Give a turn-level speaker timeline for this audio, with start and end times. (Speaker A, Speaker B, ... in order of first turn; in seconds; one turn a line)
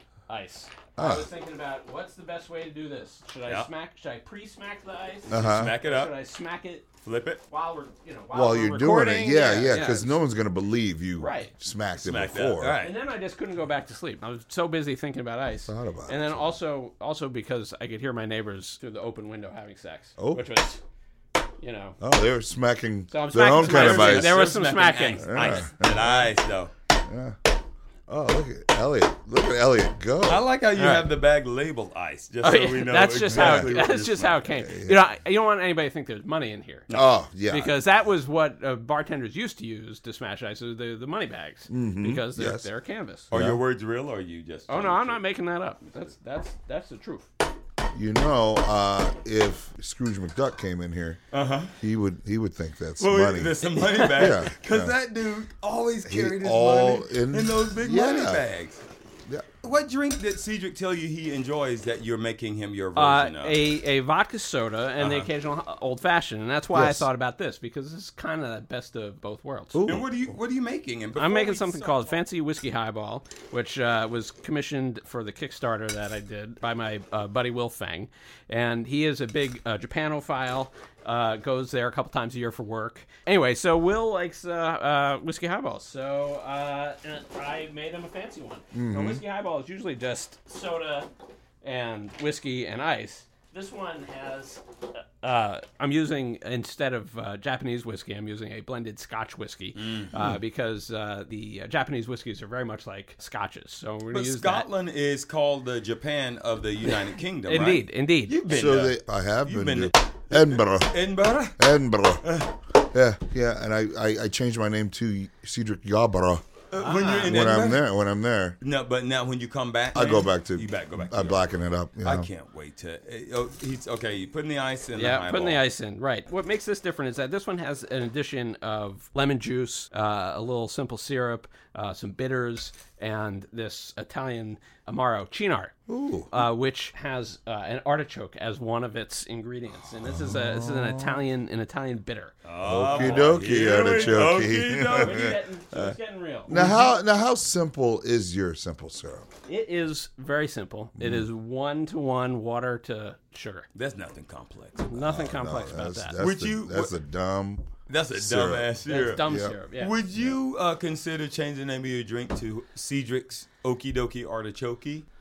Speaker A: 0.3-6.9
Speaker B: 1.0-1.3
Speaker B: 5.3-5.8
Speaker C: 5.3-6.1
Speaker C: 7.0-7.4
Speaker A: 7.5-10.2
Speaker B: 8.3-12.8
Speaker A: 11.2-11.5
Speaker C: 12.0-13.0
Speaker A: 12.8-20.8
Speaker B: 15.7-16.6
Speaker B: 20.2-20.5
Speaker A: 21.6-22.0
Speaker B: 22.0-24.4
Speaker A: 23.1-25.7
Speaker C: 23.6-26.7
Speaker B: 25.2-26.3
Speaker B: 27.1-27.4
Speaker B: 28.1-30.5
Speaker C: 30.3-34.5
Speaker A: 30.8-31.1
Speaker A: 32.4-36.9
Speaker B: 33.3-33.9
Speaker B: 34.5-35.0
Speaker B: 36.9-37.8
Speaker A: 37.5-43.3
Speaker B: 41.7-42.7
Speaker B: 43.3-43.6
Speaker C: 43.3-45.2
Speaker A: 44.7-47.3
Speaker B: 47.9-51.2
Speaker C: 51.3-51.7
Speaker B: 51.8-54.9
Speaker C: 53.0-58.8
Speaker A: 53.8-54.4
Speaker B: 56.0-58.5
Speaker C: 59.6-63.6
Speaker A: 63.0-69.9
Speaker C: 65.0-65.3
Speaker B: 66.7-67.1
Speaker B: 69.7-70.1
Speaker C: 69.9-72.1
Speaker A: 71.2-91.1
Speaker B: 88.7-89.2
Speaker A: 91.6-104.7
Speaker C: 99.8-100.1
Speaker C: 104.1-111.7
Speaker A: 107.5-108.4
Speaker B: 108.5-111.0
Speaker B: 111.6-116.4
Speaker C: 112.2-112.6
Speaker C: 116.7-117.8
Speaker A: 116.8-117.4
Speaker B: 117.2-118.6
Speaker C: 118.6-121.5
Speaker B: 119.9-122.3
Speaker C: 122.0-125.6
Speaker A: 125.0-135.8
Speaker B: 135.9-136.5
Speaker A: 136.3-142.4
Speaker B: 140.0-141.2
Speaker C: 142.4-145.2
Speaker B: 142.6-145.9
Speaker A: 142.9-143.4
Speaker A: 144.9-146.9
Speaker B: 146.5-149.3
Speaker A: 149.5-153.7
Speaker B: 151.0-151.3
Speaker C: 153.8-154.9
Speaker A: 154.9-156.2
Speaker B: 155.0-159.6
Speaker C: 156.2-156.9
Speaker C: 157.9-165.1
Speaker A: 158.9-159.9